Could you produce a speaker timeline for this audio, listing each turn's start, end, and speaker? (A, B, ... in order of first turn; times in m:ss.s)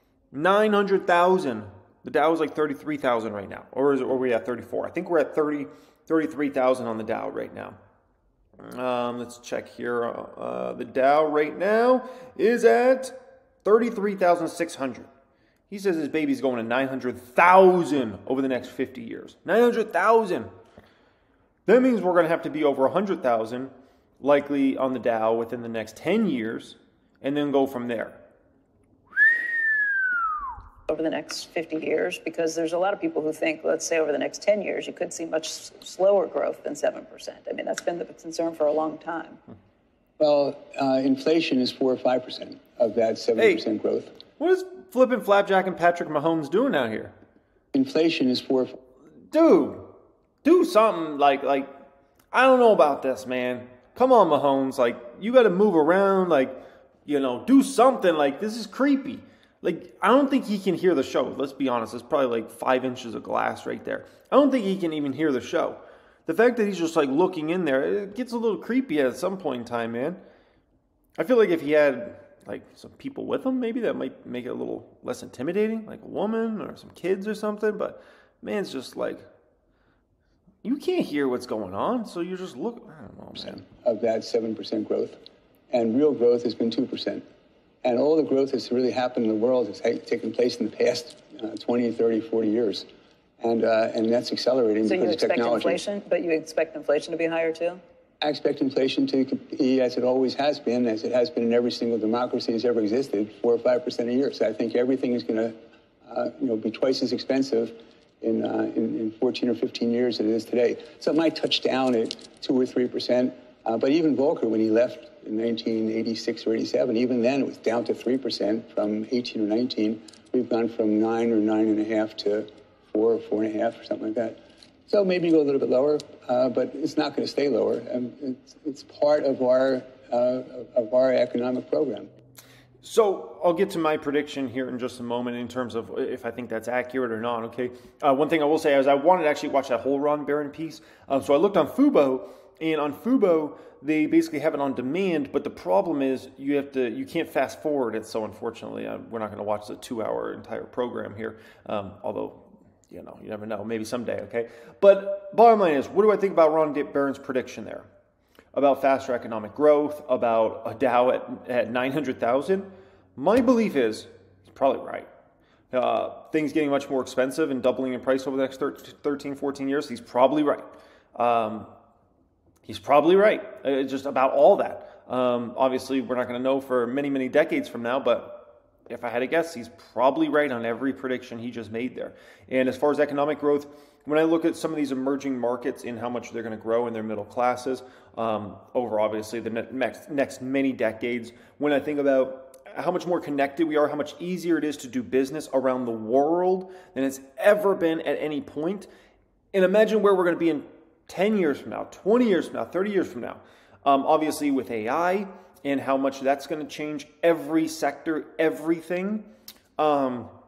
0:00.3-0:07.8 A
0:08.6-0:15.1 A
0:15.7-0:20.5 A
0:21.7-0:28.2 A
0:30.9-0:39.4 B
0:40.2-0:44.2 C
0:43.4-0:43.6 A
0:44.4-0:47.1 A
0:47.7-0:48.8 C
0:49.3-0:49.9 A
0:50.4-0:51.7 A
0:52.3-1:10.2 A
1:11.2-1:19.2 A
1:20.6-1:23.6 A
1:23.6-1:25.2 C
1:25.7-1:27.2 C
1:27.8-1:32.9 C
1:33.4-1:35.8 C
1:34.9-1:37.8 B
1:38.2-1:45.5 C
1:46.0-2:04.4 C
2:04.9-2:12.1 C
2:12.8-2:37.9 A
2:38.5-2:45.1 A
2:45.7-2:51.7 A
2:52.6-3:18.9 A
3:19.5-3:29.3 A
3:29.8-3:30.3 A